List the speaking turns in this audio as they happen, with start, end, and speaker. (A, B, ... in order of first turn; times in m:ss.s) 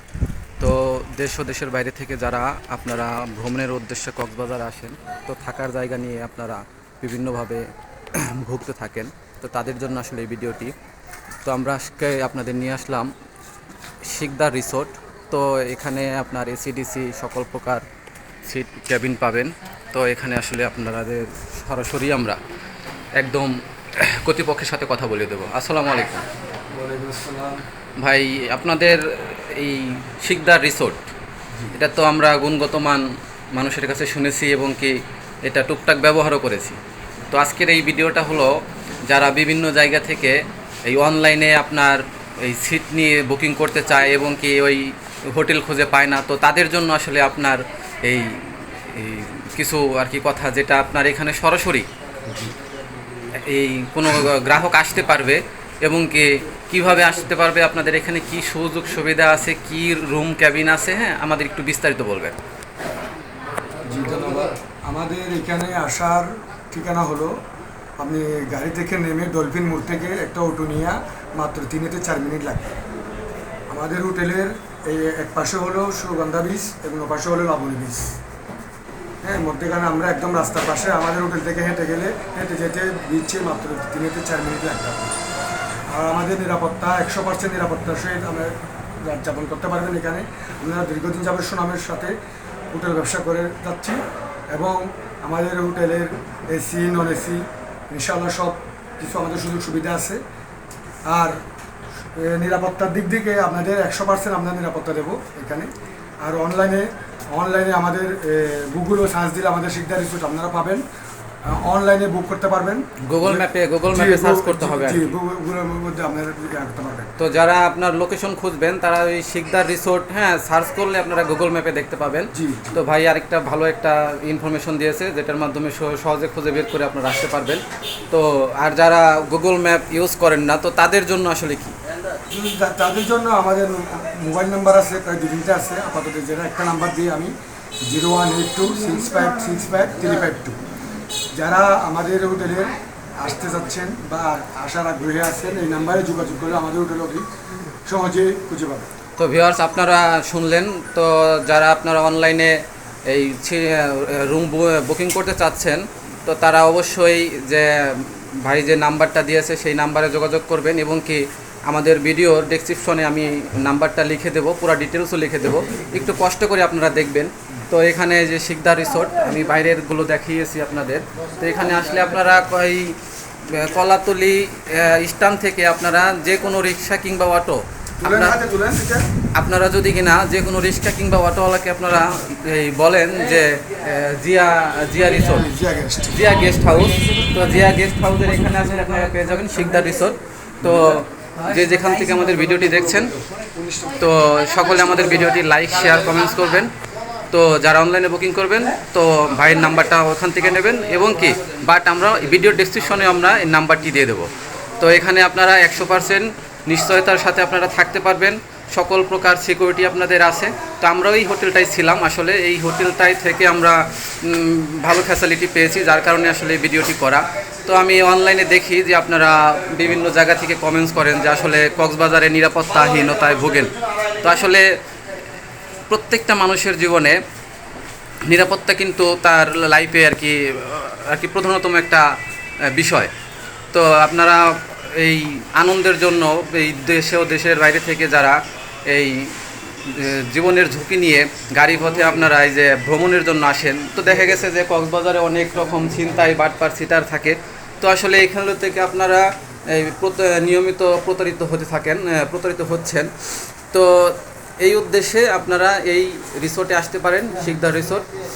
0:00.6-0:10.8 A
0:11.4-0:13.1 A
0:14.0-0:17.9 A
0:18.5-0:22.4 A
0:23.2-0:26.3 A
0:26.7-0:27.6 B
0:28.0-0:31.0 A
0:31.7-0:36.8 A
0:37.3-0:38.6 A
0:39.1-0:51.9 A
0:52.3-0:52.5 B
0:53.4-1:02.4 A
1:03.9-1:07.3 B
1:08.0-1:12.7 B
1:13.7-1:18.2 B
1:19.2-1:25.2 B
1:25.9-1:32.1 B
1:32.7-1:34.0 B
1:34.5-1:40.2 B
1:41.1-1:41.4 B
1:42.2-1:45.7 B
1:46.2-1:50.8 B
1:51.4-1:57.1 B
1:53.0-1:55.1 A
1:57.2-2:11.8 A
2:02.3-2:02.8 B
2:12.3-2:17.3 B
2:17.8-2:20.6 B
2:21.4-2:27.2 B
2:27.9-2:28.9 B
2:29.2-2:58.4 A
2:58.0-2:59.1 B
2:59.4-3:05.5 A
3:05.3-3:06.2 B
3:06.1-3:13.1 A
3:10.6-3:10.9 B
3:13.0-3:14.1 B
3:14.0-3:16.7 A
3:17.3-3:44.8 A
3:45.9-3:47.2 A
3:48.2-3:53.1 A
3:53.7-4:13.1 A
4:13.7-4:18.1 A